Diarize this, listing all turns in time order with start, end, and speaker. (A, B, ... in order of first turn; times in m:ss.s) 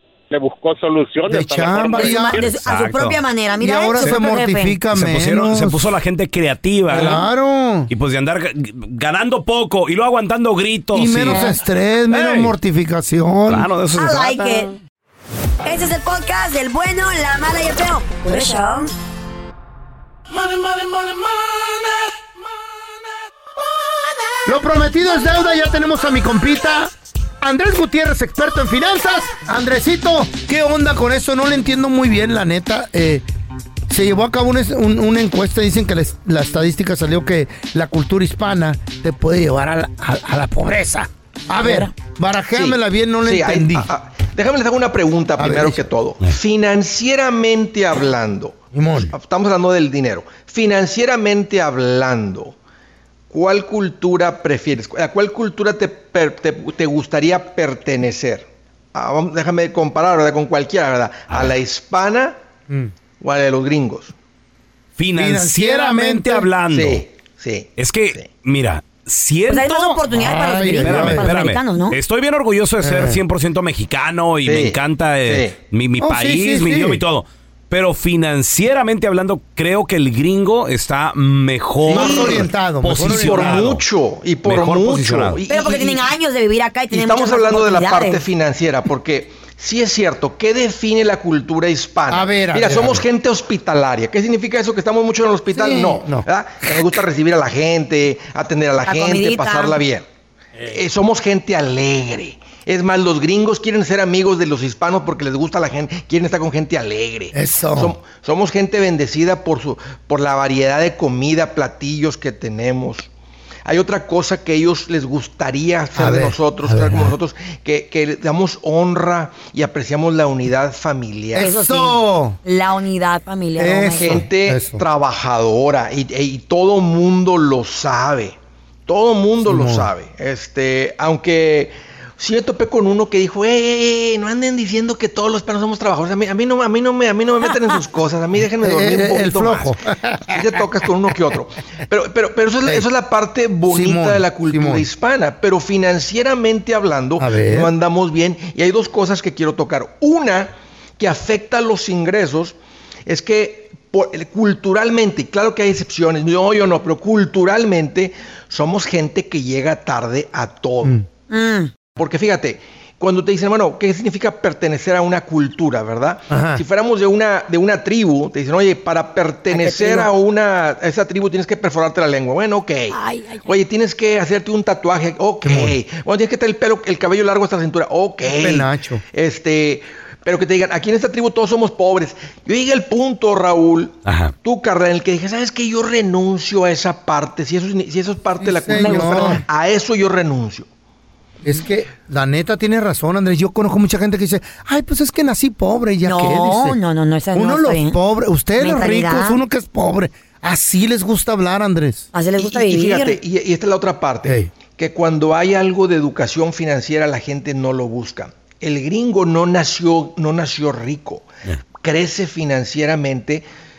0:00.3-0:02.4 A
0:01.3-0:02.4 B
0:02.0-0:04.8 C
0:02.5-0:03.2 D
0:03.6-0:05.9 B
0:04.9-0:07.2 D
0:06.9-0:07.9 B
0:06.9-0:07.2 C
0:07.9-0:11.5 D
0:10.9-0:13.7 B
0:11.3-0:11.6 C
0:12.1-0:12.5 D
0:13.5-0:14.6 D
0:13.9-0:14.8 C
0:15.6-0:18.9 C
0:20.4-0:21.3 B
0:24.4-0:33.2 B
0:33.9-0:43.9 B
0:41.6-0:41.9 C
0:42.6-0:52.6 E
0:45.4-0:45.9 B
0:48.7-0:49.1 B
0:53.3-1:02.4 E
1:03.2-1:04.1 E
1:05.0-1:07.0 D
1:05.2-1:06.5 B
1:06.7-1:08.3 E
1:07.8-1:10.1 D
1:09.5-1:12.0 C
1:10.1-1:11.3 B
1:10.8-1:23.8 D
1:12.8-1:13.2 B
1:14.4-1:15.6 E
1:16.0-1:17.0 B
1:21.9-1:22.5 E
1:21.9-1:23.7 B
1:23.0-1:26.1 E
1:24.4-1:25.4 D
1:25.5-1:28.3 C
1:26.9-1:40.1 E
1:32.1-1:33.0 B
1:35.5-1:36.9 B
1:38.8-1:39.8 C
1:40.6-1:53.1 E
1:47.3-1:48.0 B
1:53.6-2:01.6 E
1:56.0-1:57.2 B
2:01.4-2:02.4 B
2:01.4-2:04.2 C
2:03.6-2:04.8 B
2:03.9-2:19.7 E
2:09.4-2:09.9 B
2:18.6-2:20.7 B
2:20.3-2:32.6 E
2:23.7-2:24.9 B
2:27.2-2:27.7 B
2:33.1-2:41.0 E
2:41.3-2:41.7 C
2:42.0-3:10.7 E
2:46.3-2:46.6 B
2:49.5-2:50.1 C
2:52.9-2:53.6 C
2:55.4-2:55.8 B
2:58.2-2:59.0 B
3:04.1-3:04.3 D
3:08.4-3:09.4 B
3:08.8-3:09.4 C
3:11.4-3:16.8 B
3:16.0-3:18.0 C
3:17.3-3:22.1 B
3:18.6-3:19.4 C
3:22.1-3:23.2 C
3:22.4-3:31.3 E
3:24.2-3:24.5 B
3:31.8-3:33.4 E